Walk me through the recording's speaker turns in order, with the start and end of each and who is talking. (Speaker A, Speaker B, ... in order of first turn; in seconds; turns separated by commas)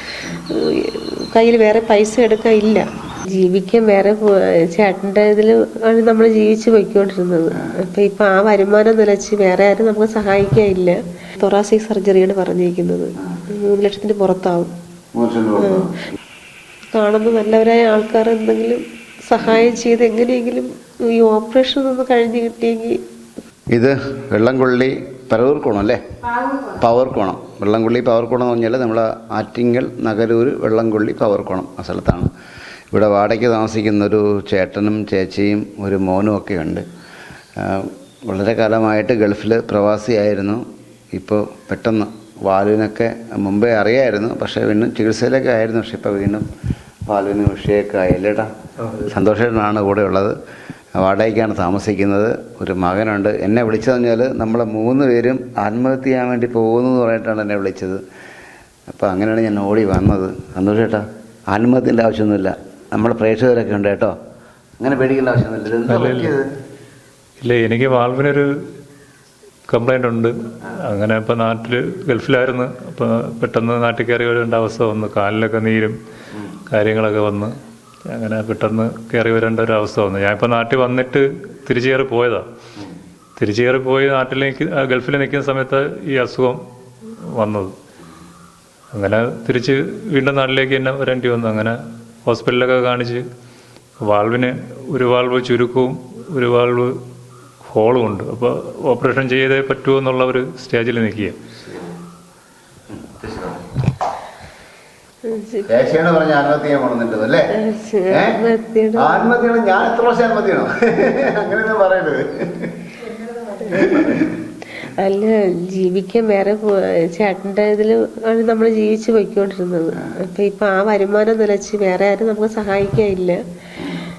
Speaker A: 0.8-14.7, Speaker B: 15.2-16.1, Speaker A: 15.6-15.8, Speaker A: 16.9-23.0, Speaker B: 23.7-32.3, Speaker B: 32.9-36.8, Speaker B: 37.6-46.5, Speaker B: 47.1-50.3, Speaker C: 48.8-49.1, Speaker B: 51.0-58.0, Speaker B: 58.9-64.1, Speaker B: 64.8-66.5, Speaker C: 65.9-66.4, Speaker C: 67.4-68.5, Speaker C: 69.7-76.0, Speaker C: 76.7-77.5, Speaker C: 78.1-82.5, Speaker C: 83.4-86.6, Speaker C: 87.3-87.7, Speaker C: 88.9-93.2, Speaker C: 94.0-97.0, Speaker C: 97.6-101.4, Speaker B: 101.6-101.9, Speaker B: 102.9-103.7, Speaker A: 105.3-105.7, Speaker B: 105.7-107.5, Speaker A: 107.5-109.2, Speaker B: 108.1-108.4, Speaker B: 109.0-112.8, Speaker B: 113.7-114.4, Speaker A: 113.7-114.2, Speaker A: 114.8-123.4, Speaker B: 123.8-124.1